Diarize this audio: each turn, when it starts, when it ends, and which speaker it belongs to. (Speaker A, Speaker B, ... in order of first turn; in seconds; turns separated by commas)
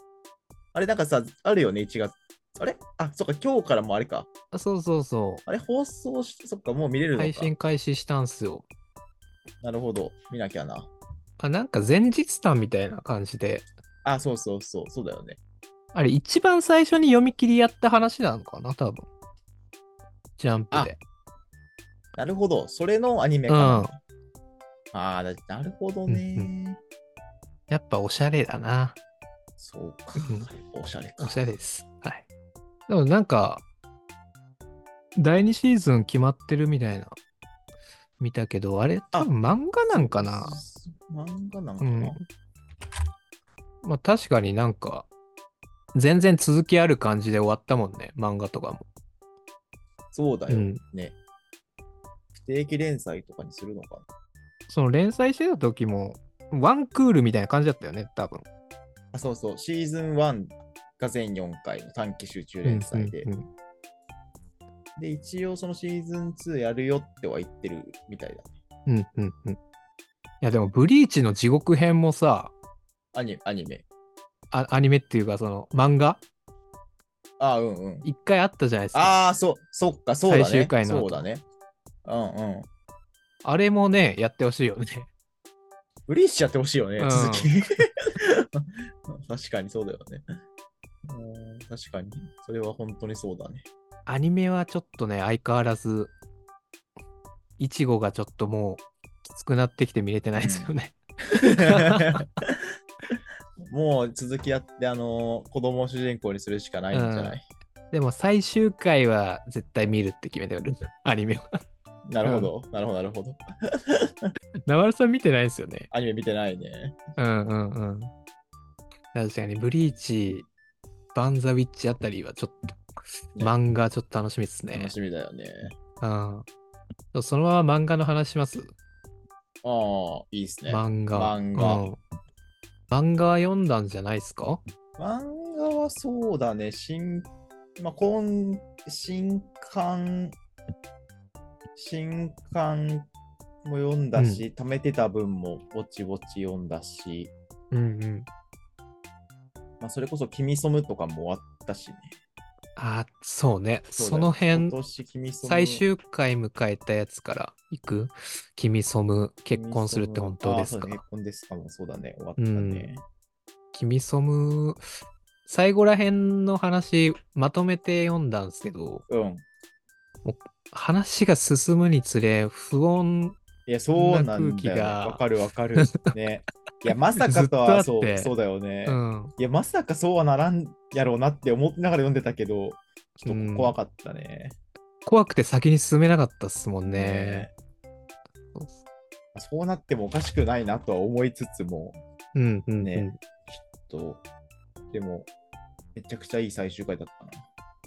Speaker A: 0.7-4.3, Speaker B: 4.5-5.4, Speaker A: 5.5-7.5, Speaker B: 7.1-8.7, Speaker A: 9.6-10.9, Speaker B: 11.4-13.6, Speaker A: 14.0-15.4, Speaker B: 15.9-19.1, Speaker B: 20.4-21.0, Speaker A: 22.1-24.0, Speaker B: 23.5-23.9, Speaker A: 24.9-26.8, Speaker B: 26.1-26.5, Speaker B: 27.7-29.0, Speaker A: 29.6-31.4, Speaker B: 30.2-30.5, Speaker B: 31.2-32.2, Speaker B: 32.9-33.6, Speaker B: 35.1-37.1, Speaker B: 38.2-40.5, Speaker A: 39.9-42.2, Speaker B: 41.8-42.2, Speaker B: 43.8-45.1, Speaker B: 45.9-48.9, Speaker A: 50.1-51.2, Speaker B: 50.5-50.8, Speaker A: 52.3-54.0, Speaker B: 54.7-58.4, Speaker A: 59.1-63.3, Speaker B: 62.6-63.5, Speaker A: 65.0-68.5, Speaker B: 68.9-69.6, Speaker B: 70.4-72.5, Speaker A: 73.1-73.8, Speaker B: 74.5-76.2, Speaker A: 77.4-78.0, Speaker B: 78.0-79.2, Speaker A: 78.9-81.4, Speaker B: 80.3-81.2, Speaker A: 82.0-82.7, Speaker B: 83.4-85.1, Speaker A: 86.1-90.2, Speaker B: 87.0-87.5, Speaker A: 91.1-93.7, Speaker B: 94.0-96.1, Speaker B: 97.6-102.3, Speaker A: 100.3-100.7, Speaker A: 101.4-102.7, Speaker A: 103.7-107.4, Speaker B: 106.9-107.4, Speaker B: 107.9-111.5, Speaker A: 112.1-114.3, Speaker B: 112.2-112.5, Speaker B: 114.7-115.9, Speaker A: 115.9-117.0, Speaker B: 117.2-118.1, Speaker B: 119.1-120.5, Speaker B: 121.1-122.8, Speaker B: 123.4-124.9, Speaker A: 124.7-125.8, Speaker B: 126.0-126.5, Speaker B: 127.1-128.7, Speaker A: 129.6-131.8, Speaker B: 130.7-132.0, Speaker B: 132.9-134.6, Speaker A: 135.0-140.3, Speaker A: 141.8-143.1, Speaker A: 143.6-147.3, Speaker B: 144.2-144.4, Speaker B: 147.7-148.3, Speaker A: 149.8-152.1, Speaker B: 152.8-154.8, Speaker A: 153.9-155.8, Speaker B: 155.4-161.0, Speaker A: 159.5-163.0, Speaker B: 162.4-162.9, Speaker B: 163.7-164.8, Speaker B: 165.4-169.0, Speaker A: 169.1-169.4, Speaker B: 170.2-173.4, Speaker A: 173.7-184.6, Speaker B: 173.9-175.2, Speaker B: 175.8-176.1, Speaker B: 177.2-178.3, Speaker B: 178.8-179.3, Speaker B: 183.2-183.8, Speaker B: 185.1-187.5, Speaker A: 186.8-187.5, Speaker A: 189.3-192.0, Speaker B: 192.3-193.2, Speaker A: 192.8-194.2, Speaker A: 194.9-195.3, Speaker A: 195.9-197.5